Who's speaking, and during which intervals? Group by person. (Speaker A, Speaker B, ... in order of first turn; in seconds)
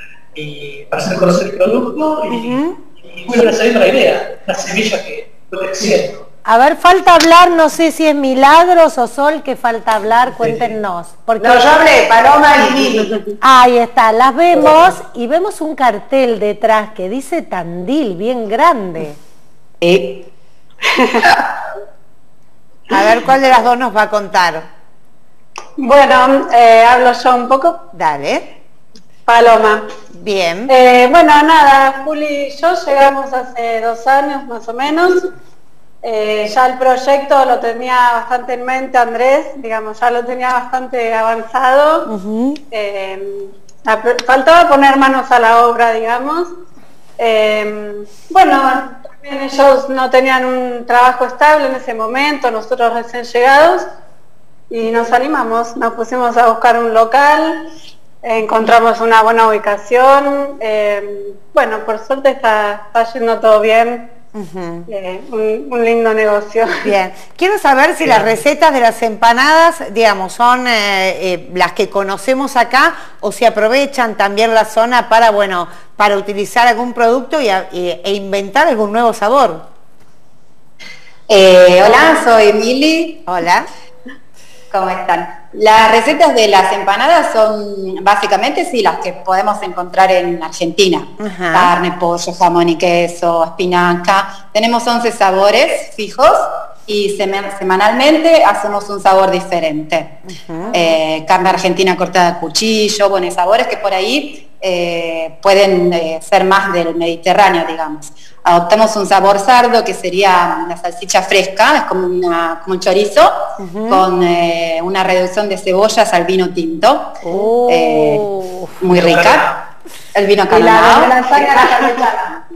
Speaker A: 0.3-6.2, 10.4-10.7, 68.0-68.4, 118.9-119.6
Speaker B: 2.3-2.8, 22.9-24.7, 27.9-28.5, 30.1-30.7, 42.1-42.6, 64.3-64.9, 66.8-79.7, 83.3-83.7, 91.2-91.7, 100.3-100.8, 113.6-114.1, 117.3-117.5
Speaker C: 6.5-11.8, 13.4-19.2, 117.3-118.7
Speaker D: 11.4-13.2, 120.5-122.4
Speaker E: 19.8-20.3, 81.3-83.2, 84.7-100.1, 100.7-113.4, 113.9-118.2, 118.8-119.5, 120.2-121.2
Speaker F: 20.9-21.4, 25.8-27.8, 29.3-29.9, 30.7-35.3, 36.0-42.1, 42.7-46.5, 47.2-53.9, 54.7-57.6, 58.2-64.1, 64.9-66.9